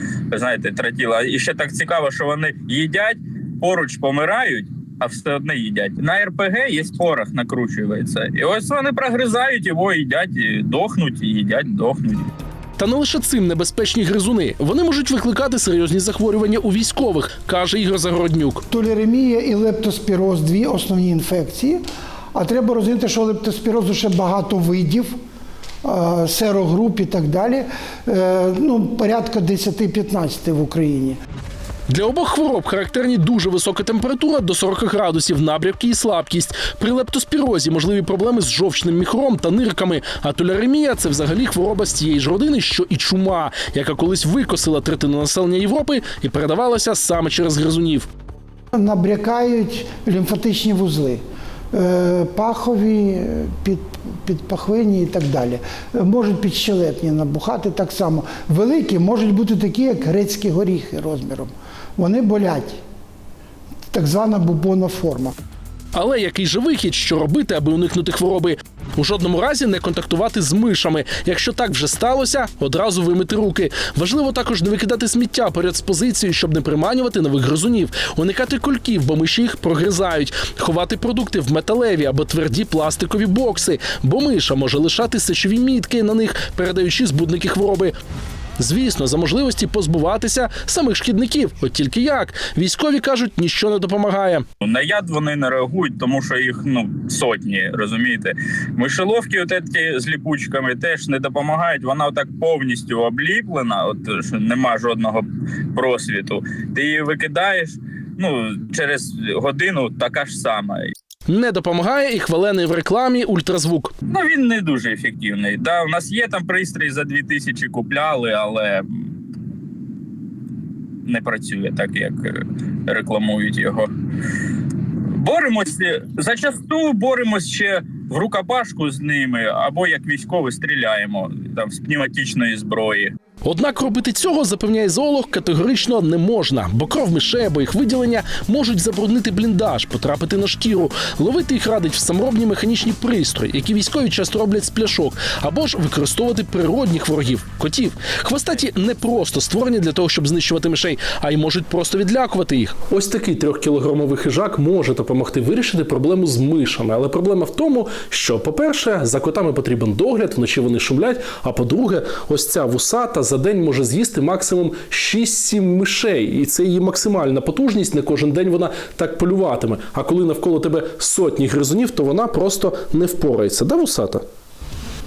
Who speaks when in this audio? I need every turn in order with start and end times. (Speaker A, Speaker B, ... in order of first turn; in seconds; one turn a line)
Speaker A: 0.3-12.3
Speaker B: 12.8-18.6
Speaker C: 18.7-21.8
Speaker C: 22.3-25.1
Speaker C: 25.8-31.2
Speaker B: 31.9-48.1
Speaker C: 48.7-51.2
Speaker C: 51.7-62.8
Speaker C: 63.9-65.3
Speaker B: 65.9-87.9
Speaker B: 88.6-94.4
Speaker A: 94.6-110.8
Speaker B: 111.3-113.9
Speaker A: 114.1-119.1
Speaker A: 121.0-123.9
Speaker A: 125.2-133.1
Speaker B: 133.4-174.2